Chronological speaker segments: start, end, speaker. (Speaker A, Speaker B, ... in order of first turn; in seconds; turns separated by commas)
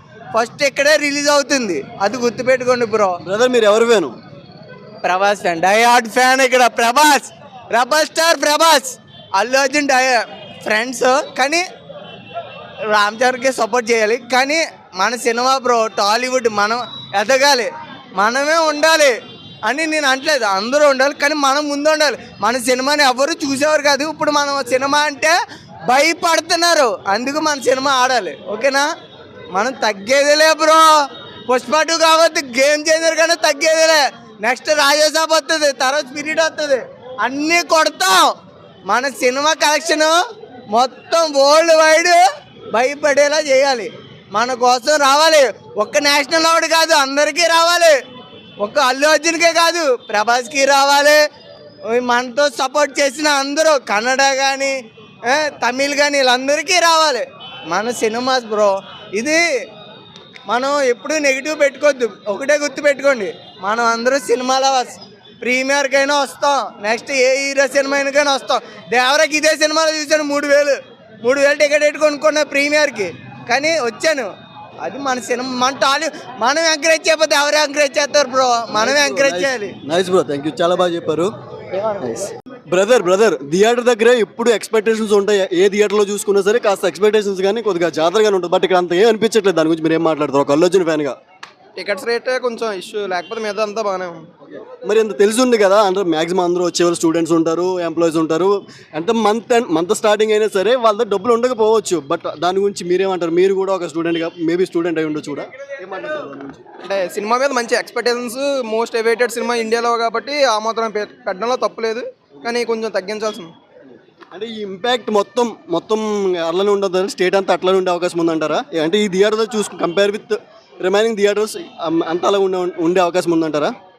Speaker A: 0.3-3.2, Speaker B: 3.2-4.1, Speaker A: 5.0-11.6, Speaker A: 12.9-19.1, Speaker A: 19.6-25.3, Speaker A: 25.9-28.9, Speaker A: 29.5-30.8, Speaker A: 31.5-38.3, Speaker A: 38.9-40.1, Speaker A: 40.7-42.2, Speaker A: 42.7-47.9, Speaker A: 48.6-51.2, Speaker A: 51.9-54.7, Speaker A: 55.3-59.4, Speaker A: 60.5-74.3, Speaker A: 74.8-79.7, Speaker B: 78.7-81.3, Speaker B: 82.0-91.2, Speaker C: 91.8-94.2, Speaker B: 94.5-106.6, Speaker C: 106.8-113.5, Speaker B: 114.3-123.7